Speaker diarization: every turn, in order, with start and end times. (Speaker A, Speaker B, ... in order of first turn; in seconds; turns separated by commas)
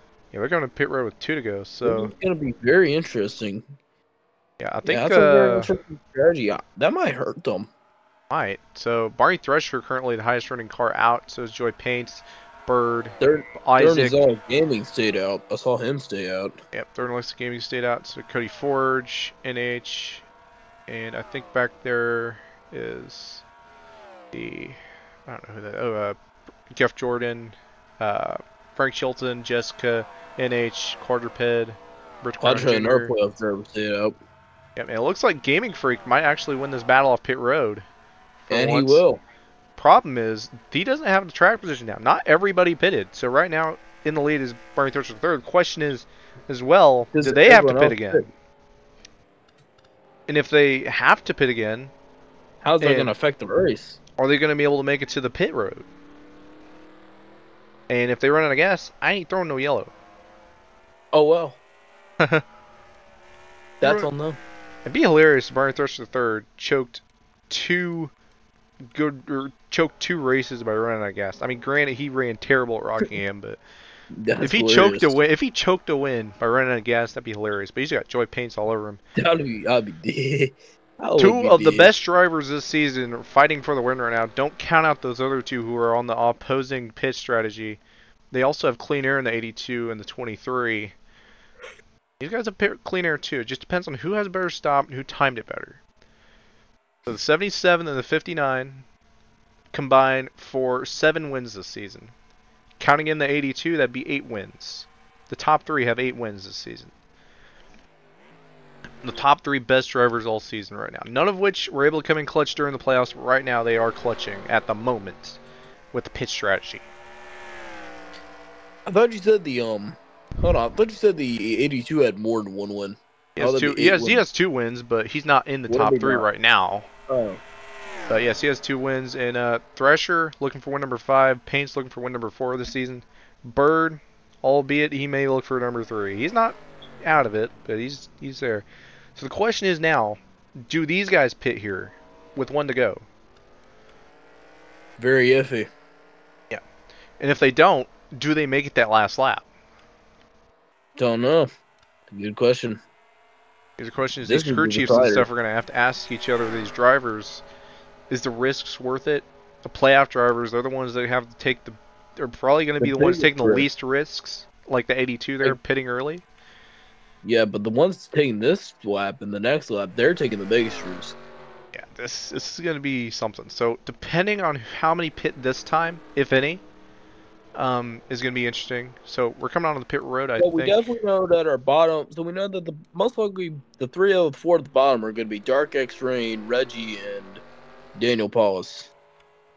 Speaker A: 0.3-2.1, Speaker B: 1.8-3.6, Speaker A: 4.6-5.7, Speaker B: 4.9-7.7, Speaker A: 8.3-14.2, Speaker B: 13.2-16.6, Speaker A: 16.7-20.2, Speaker A: 20.9-23.4, Speaker A: 24.3-26.2, Speaker A: 26.7-33.1, Speaker B: 32.4-34.2, Speaker A: 34.8-37.9, Speaker A: 38.5-39.0, Speaker B: 38.5-39.2, Speaker A: 39.8-48.3, Speaker B: 47.1-48.3, Speaker A: 50.3-51.9, Speaker B: 52.6-54.0, Speaker A: 52.8-53.1, Speaker A: 54.2-55.9, Speaker A: 57.9-59.9, Speaker B: 61.1-61.6, Speaker B: 63.8-64.4, Speaker A: 63.8-64.1, Speaker A: 64.8-68.1, Speaker A: 68.9-73.6, Speaker B: 74.2-75.2, Speaker A: 74.4-79.0, Speaker B: 79.2-81.9, Speaker A: 81.2-87.8, Speaker A: 88.3-90.9, Speaker A: 92.2-95.8, Speaker A: 97.1-98.8, Speaker A: 99.7-102.1, Speaker A: 102.8-106.9, Speaker A: 109.0-115.4, Speaker A: 115.9-116.9, Speaker B: 118.9-124.2, Speaker A: 123.4-126.9, Speaker B: 125.7-126.3, Speaker B: 127.1-127.4, Speaker A: 128.1-138.7, Speaker A: 139.2-143.1, Speaker B: 145.0-145.7, Speaker A: 147.2-149.4, Speaker B: 151.0-151.5, Speaker B: 152.1-152.8, Speaker A: 153.8-157.4, Speaker B: 154.2-155.3, Speaker A: 158.1-166.2, Speaker B: 162.8-163.7, Speaker B: 167.2-171.2, Speaker A: 171.7-176.6, Speaker A: 177.6-180.9, Speaker B: 180.4-187.4, Speaker B: 187.9-188.9